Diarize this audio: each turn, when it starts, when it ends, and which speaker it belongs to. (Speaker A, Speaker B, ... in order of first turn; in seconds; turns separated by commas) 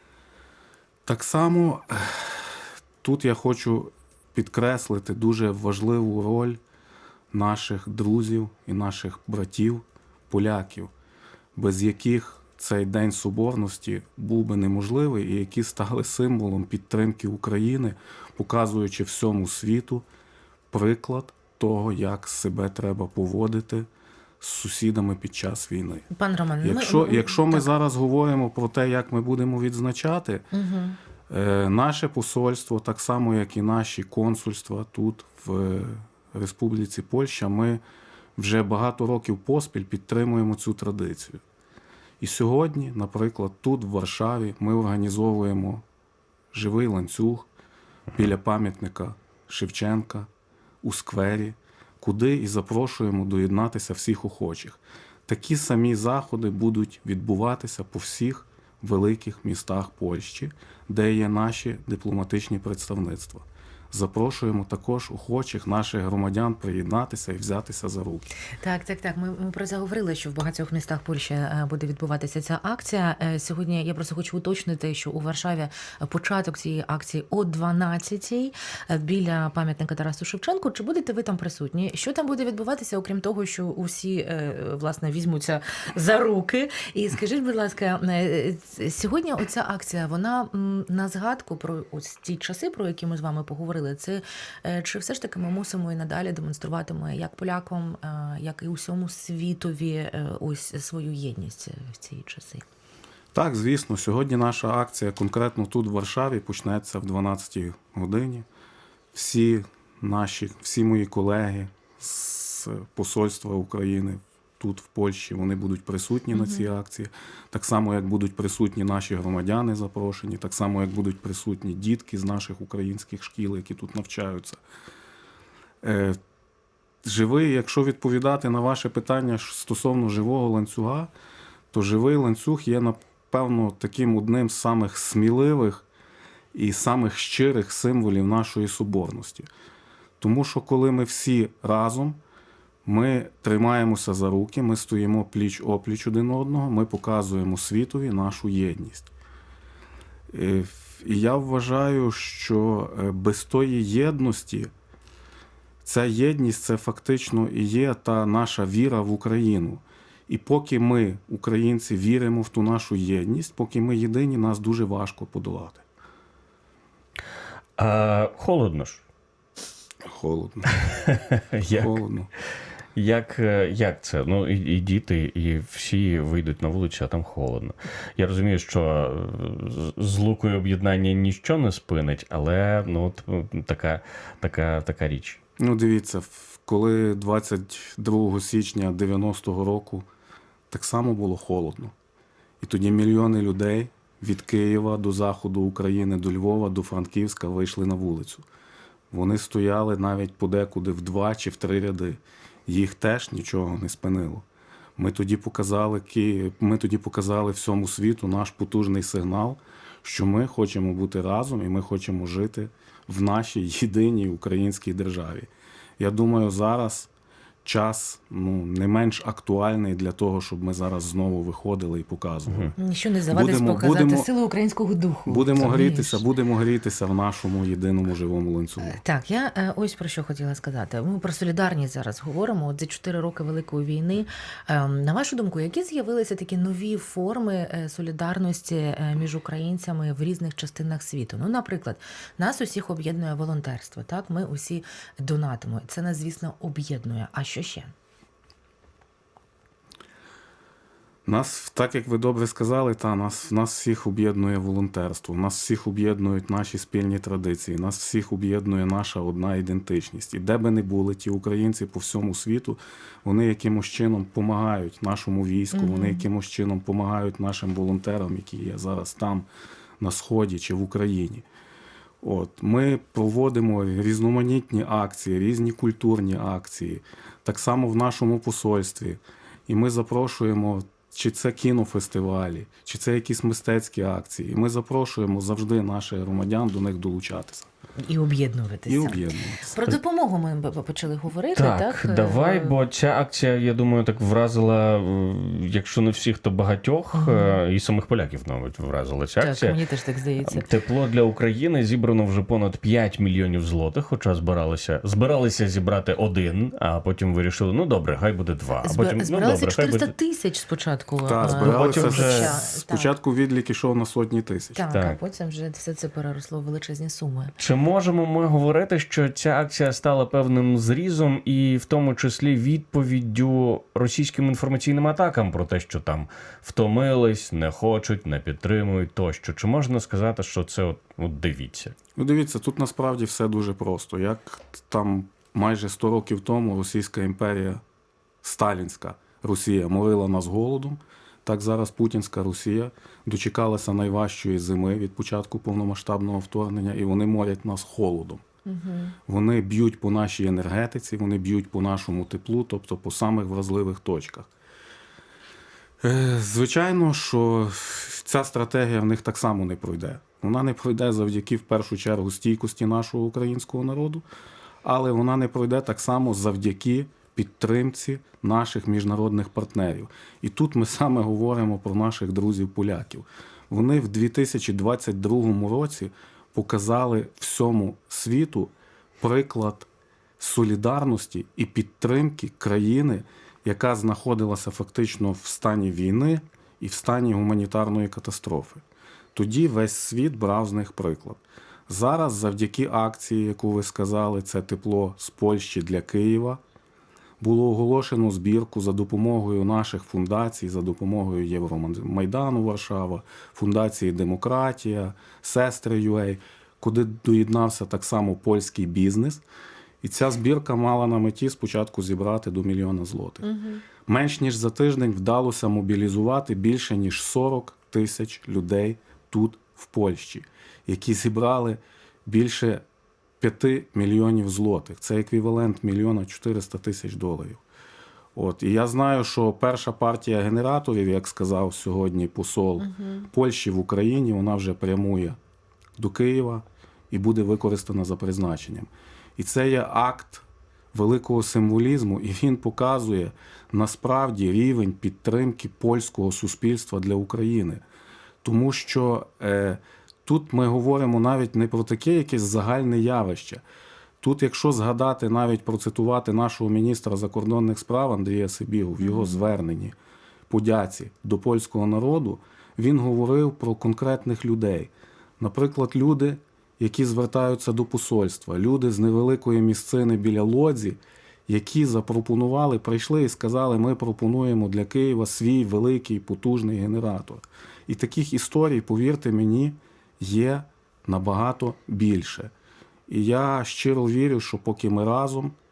Speaker A: 1.1-6.6, Speaker A: 7.3-10.9, Speaker A: 11.6-20.1, Speaker A: 20.7-23.9, Speaker A: 24.4-26.1, Speaker B: 26.1-27.7, Speaker A: 26.6-30.5, Speaker B: 30.5-31.0, Speaker A: 31.3-37.8, Speaker A: 38.4-41.4, Speaker A: 42.2-45.8, Speaker A: 46.5-47.5, Speaker A: 48.1-50.3, Speaker A: 50.8-68.3, Speaker B: 68.6-102.6, Speaker A: 103.3-108.5, Speaker A: 109.1-124.6, Speaker B: 116.3-116.7, Speaker A: 125.8-126.2, Speaker A: 127.0-131.1, Speaker A: 131.7-135.9, Speaker A: 136.5-139.5, Speaker A: 140.2-142.2, Speaker A: 142.8-149.1, Speaker A: 150.3-154.7, Speaker A: 155.8-165.8, Speaker C: 167.8-169.0, Speaker A: 170.0-170.8, Speaker C: 170.9-172.0, Speaker A: 171.7-172.3, Speaker C: 173.0-185.4, Speaker A: 185.6-190.1, Speaker A: 190.7-191.9, Speaker A: 192.6-198.5, Speaker A: 199.1-204.5, Speaker A: 205.0-217.1, Speaker A: 217.6-222.8, Speaker B: 222.8-226.2, Speaker A: 223.3-224.3, Speaker A: 225.3-229.0, Speaker B: 228.8-247.9, Speaker A: 251.2-269.5, Speaker B: 265.7-266.3, Speaker A: 270.0-271.5, Speaker A: 272.2-287.7, Speaker B: 288.0-292.8, Speaker A: 288.9-289.8, Speaker C: 291.6-299.8, Speaker B: 297.1-297.6, Speaker B: 299.4-300.6, Speaker C: 300.4-310.1, Speaker B: 308.8-313.1, Speaker A: 311.2-314.8, Speaker C: 311.4-312.6, Speaker B: 314.8-317.5, Speaker C: 314.9-315.2, Speaker C: 317.6-331.9, Speaker A: 332.2-337.8, Speaker A: 338.4-348.4, Speaker B: 348.7-349.2, Speaker A: 349.3-354.5, Speaker A: 356.0-364.2, Speaker A: 364.8-379.9, Speaker A: 380.4-388.8, Speaker A: 389.4-396.6, Speaker A: 397.4-409.4, Speaker A: 410.0-413.5, Speaker B: 413.4-413.8, Speaker A: 414.1-422.8, Speaker A: 423.4-427.6, Speaker A: 428.4-435.4, Speaker B: 432.8-433.3, Speaker A: 436.0-447.8, Speaker A: 448.4-453.6, Speaker A: 454.2-459.9, Speaker B: 459.0-459.4, Speaker A: 460.5-482.5, Speaker A: 483.1-485.6